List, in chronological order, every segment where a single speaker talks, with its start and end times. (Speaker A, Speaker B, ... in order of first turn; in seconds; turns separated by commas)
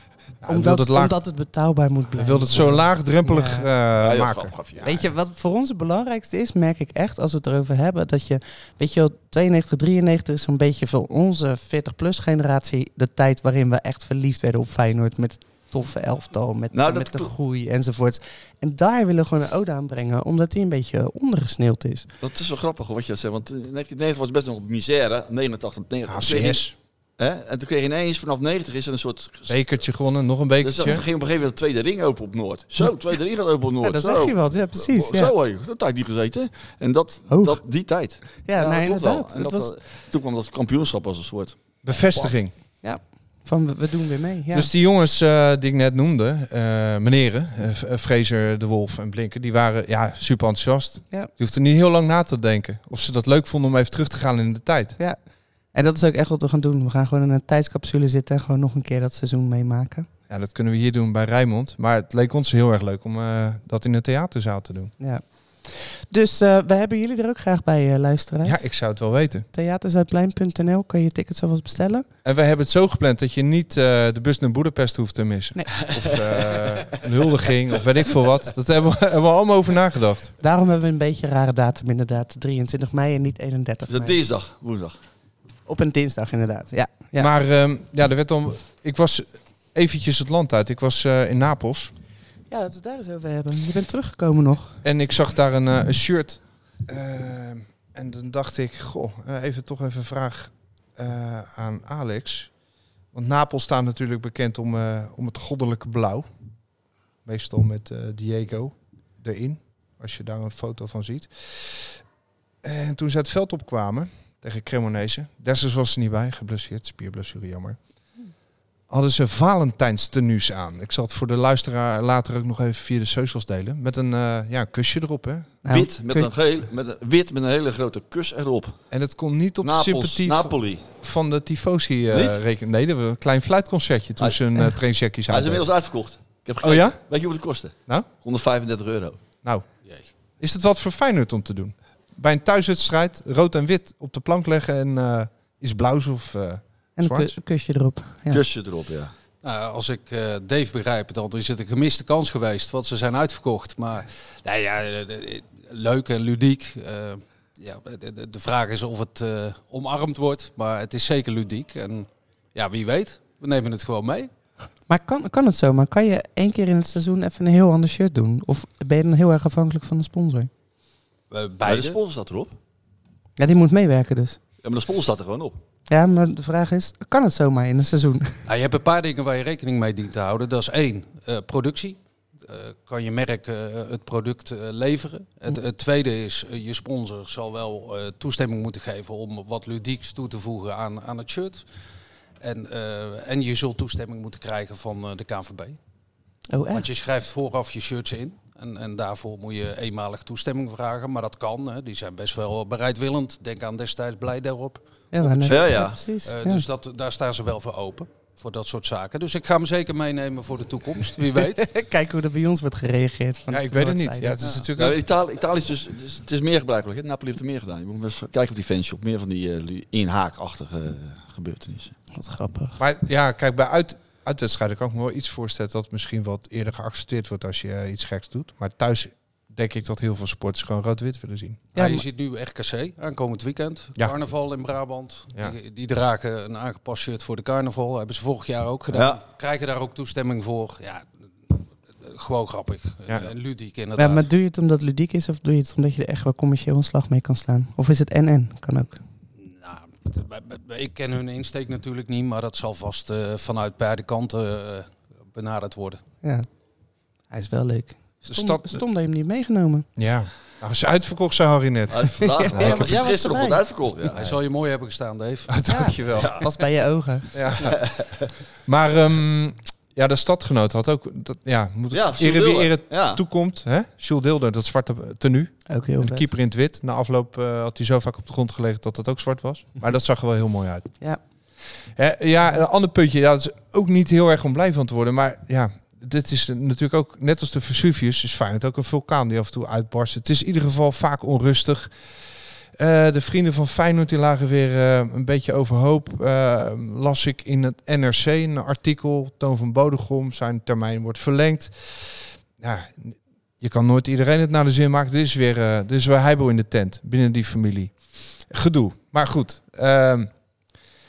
Speaker A: 0.4-1.1, Speaker B: 0.5-3.7, Speaker A: 2.1-4.5, Speaker C: 4.0-5.0, Speaker B: 4.8-22.1, Speaker C: 16.7-17.3, Speaker C: 22.2-26.6, Speaker A: 26.1-26.8, Speaker C: 27.2-29.6, Speaker A: 29.5-31.0, Speaker C: 30.6-42.3, Speaker B: 33.8-35.3, Speaker B: 37.3-37.6, Speaker B: 38.3-39.7, Speaker A: 41.8-42.5, Speaker B: 42.8-44.7, Speaker A: 44.5-55.0, Speaker B: 55.7-60.1, Speaker A: 60.3-64.9, Speaker B: 65.0-68.7, Speaker A: 68.4-69.5, Speaker B: 69.5-72.1, Speaker A: 72.2-80.3, Speaker C: 75.9-77.0, Speaker B: 80.4-84.2, Speaker C: 83.9-85.0, Speaker B: 85.7-87.3, Speaker A: 87.2-91.9, Speaker B: 92.5-94.8, Speaker A: 94.8-102.5, Speaker A: 103.1-106.3, Speaker A: 107.2-112.0, Speaker A: 112.6-117.8, Speaker A: 118.9-125.6, Speaker B: 125.6-126.3, Speaker C: 125.7-128.8, Speaker A: 128.9-135.7, Speaker C: 129.6-130.9, Speaker C: 132.1-132.4, Speaker C: 135.3-139.2, Speaker A: 136.6-137.0, Speaker A: 140.4-147.3, Speaker B: 147.0-148.4, Speaker C: 148.3-149.1, Speaker D: 149.4-164.3, Speaker B: 164.9-170.5, Speaker D: 171.3-172.0, Speaker C: 171.6-172.5, Speaker B: 173.4-174.4, Speaker C: 174.6-175.6, Speaker B: 175.9-178.4, Speaker D: 178.5-191.6, Speaker D: 192.4-195.8, Speaker B: 196.5-196.9, Speaker D: 196.7-211.7, Speaker B: 205.1-206.6, Speaker C: 205.4-206.0, Speaker B: 211.4-214.6, Speaker A: 213.5-215.0, Speaker C: 214.8-222.0, Speaker B: 222.1-222.8, Speaker A: 222.8-231.7, Speaker D: 231.8-244.3, Speaker B: 231.8-232.0, Speaker C: 238.9-239.2, Speaker B: 244.0-249.0, Speaker D: 249.4-256.0, Speaker B: 257.3-259.9, Speaker A: 258.3-258.8, Speaker A: 260.0-263.0, Speaker C: 261.9-264.4, Speaker B: 262.2-263.6, Speaker D: 264.1-265.6, Speaker A: 265.5-266.4, Speaker B: 265.7-267.3, Speaker C: 266.2-266.4, Speaker A: 267.3-267.8, Speaker C: 267.6-268.1, Speaker A: 268.6-280.9, Speaker C: 271.9-273.2, Speaker B: 275.7-276.3, Speaker A: 282.0-291.9, Speaker A: 292.8-307.9, Speaker A: 308.5-310.3